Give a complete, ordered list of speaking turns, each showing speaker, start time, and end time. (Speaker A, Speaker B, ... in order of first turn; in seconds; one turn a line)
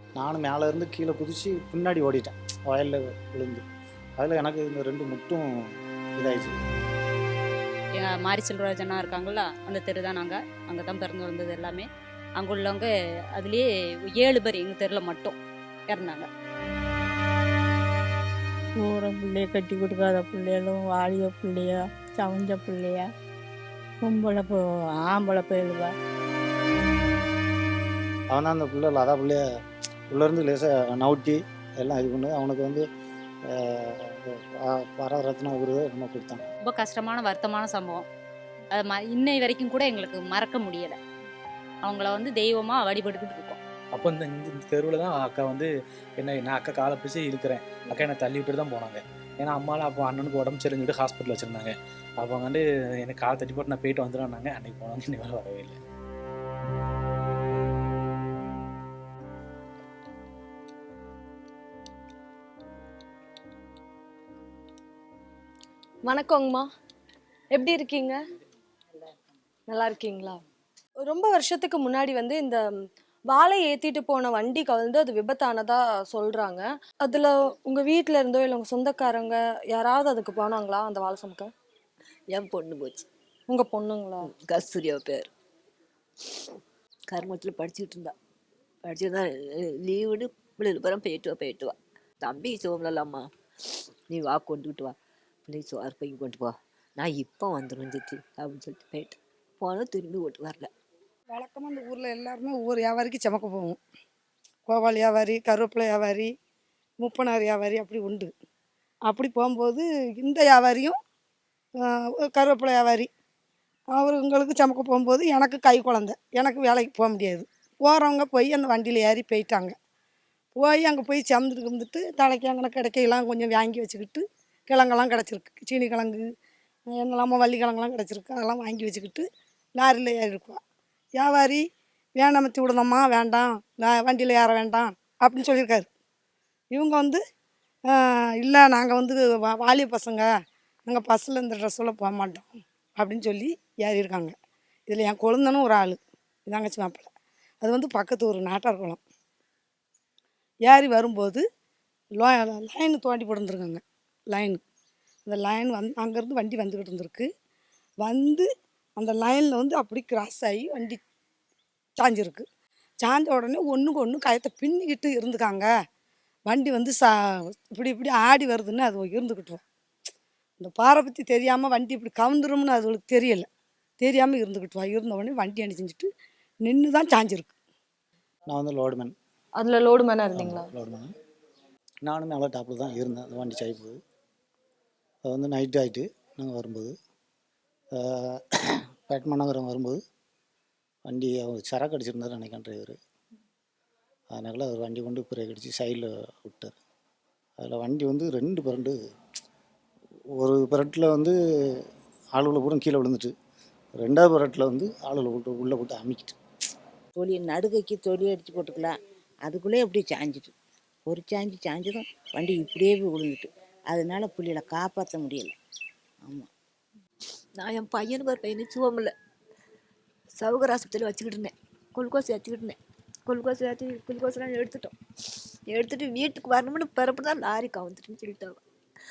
Speaker A: 0.2-3.6
Speaker A: 4.2-6.6
Speaker B: 8.0-11.8
Speaker B: 12.4-13.6
Speaker B: 14.1-15.3
Speaker B: 15.9-16.3
Speaker C: 18.8-23.1
Speaker C: 24.0-25.9
Speaker A: 28.3-29.4
Speaker A: 30.1-32.8
Speaker A: 33.5-36.5
Speaker B: 36.6-38.0
Speaker B: 38.8-41.0
Speaker B: 41.8-43.6
Speaker D: 43.9-55.8
Speaker E: 66.0-66.7
Speaker E: 67.5-68.2
Speaker E: 69.7-70.4
Speaker E: 71.0-72.6
Speaker E: 73.3-81.5
Speaker F: 82.3-83.1
Speaker E: 83.5-84.2
Speaker F: 84.3-85.3
Speaker F: 87.1-88.1
Speaker F: 88.8-93.3
Speaker F: 94.1-94.9
Speaker F: 95.5-100.7
Speaker G: 101.3-103.8
Speaker G: 104.7-106.3
Speaker G: 107.0-108.3
Speaker G: 109.0-111.0
Speaker G: 111.9-113.1
Speaker G: 113.9-119.7
Speaker G: 120.5-126.2
Speaker G: 126.9-130.6
Speaker G: 131.1-131.6
Speaker G: 132.2-135.9
Speaker G: 136.7-137.2
Speaker G: 137.9-140.3
Speaker G: 140.8-144.3
Speaker G: 144.9-147.1
Speaker G: 147.6-149.0
Speaker G: 150.6-151.4
Speaker G: 152.2-154.6
Speaker G: 155.2-157.3
Speaker G: 158.0-161.0
Speaker G: 162.0-162.4
Speaker G: 163.0-165.7
Speaker G: 166.4-169.6
Speaker G: 170.6-173.5
Speaker G: 174.0-176.1
Speaker G: 176.6-177.5
Speaker A: 178.5-179.1
Speaker E: 179.6-180.6
Speaker A: 180.3-181.1
Speaker A: 182.0-184.0
Speaker A: 185.2-186.9
Speaker A: 187.9-190.0
Speaker A: 191.1-193.0
Speaker A: 194.3-196.7
Speaker A: 197.6-198.9
Speaker A: 200.4-201.8
Speaker A: 202.3-203.3
Speaker A: 204.0-206.4
Speaker H: 207.2-210.5
Speaker H: 211.1-215.5
Speaker F: 217.6-219.1
Speaker F: 220.4-224.9
Speaker F: 225.7-228.6